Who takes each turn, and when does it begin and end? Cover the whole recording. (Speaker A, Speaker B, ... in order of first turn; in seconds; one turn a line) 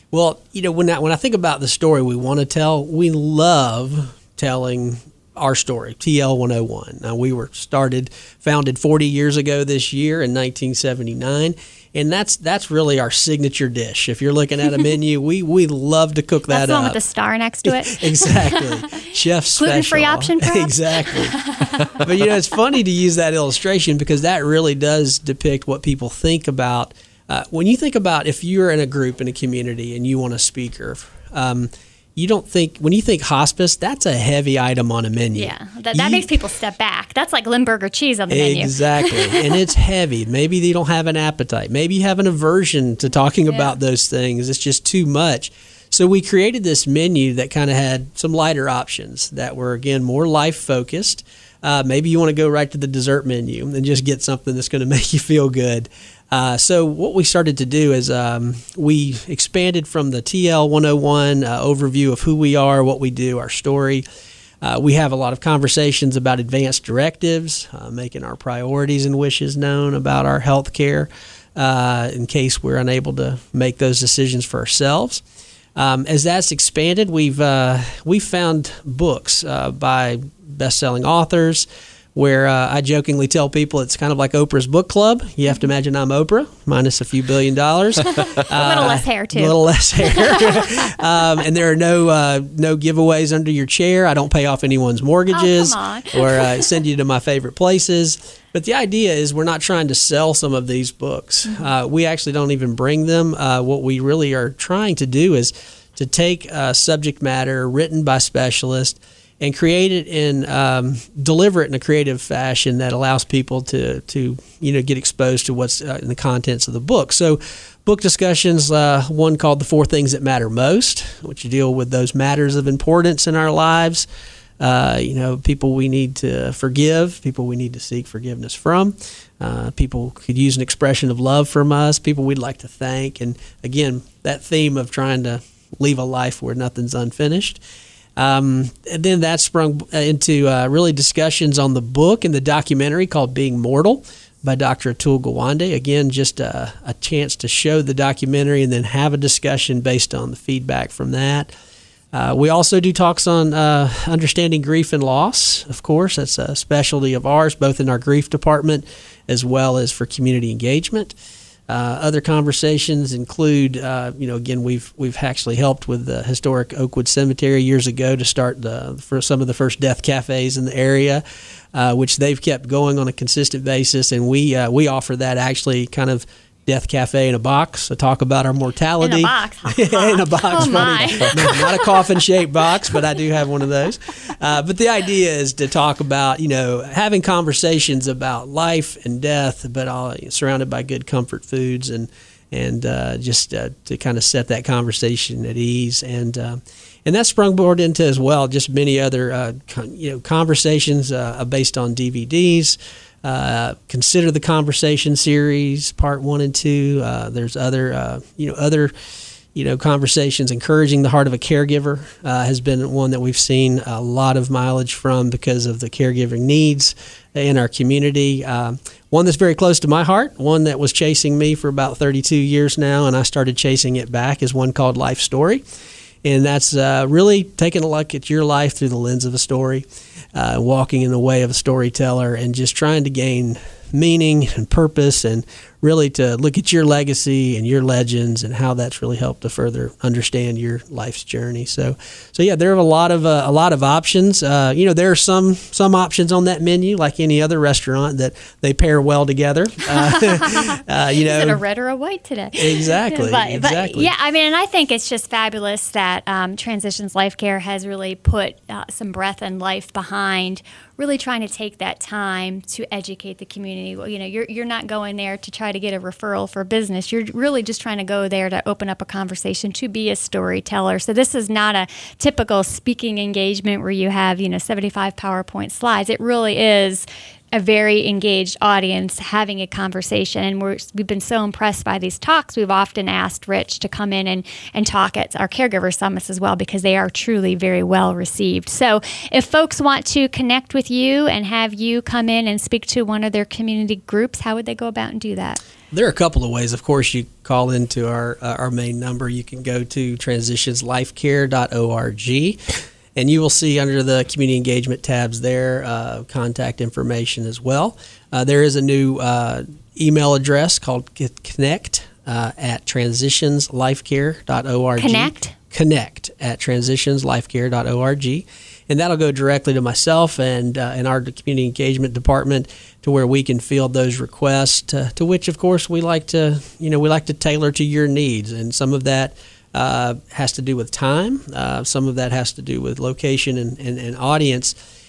Speaker A: 0.1-17.0
Speaker B: 16.5-18.6
Speaker A: 17.7-21.4
Speaker B: 19.6-21.9
Speaker A: 22.0-36.3
Speaker B: 35.3-39.4
Speaker A: 38.3-64.0
Speaker B: 43.5-43.8
Speaker A: 64.6-75.2
Speaker A: 75.8-124.1
Speaker B: 85.5-85.7
Speaker B: 88.2-90.9
Speaker B: 95.3-96.7
Speaker A: 124.6-137.6
Speaker A: 138.2-151.5
Speaker A: 152.1-161.2
Speaker A: 161.7-208.9
Speaker B: 179.0-181.9
Speaker A: 209.5-225.7
Speaker A: 226.2-251.6
Speaker B: 250.0-295.6
Speaker A: 252.6-254.1
Speaker A: 295.9-334.8
Speaker B: 315.0-315.5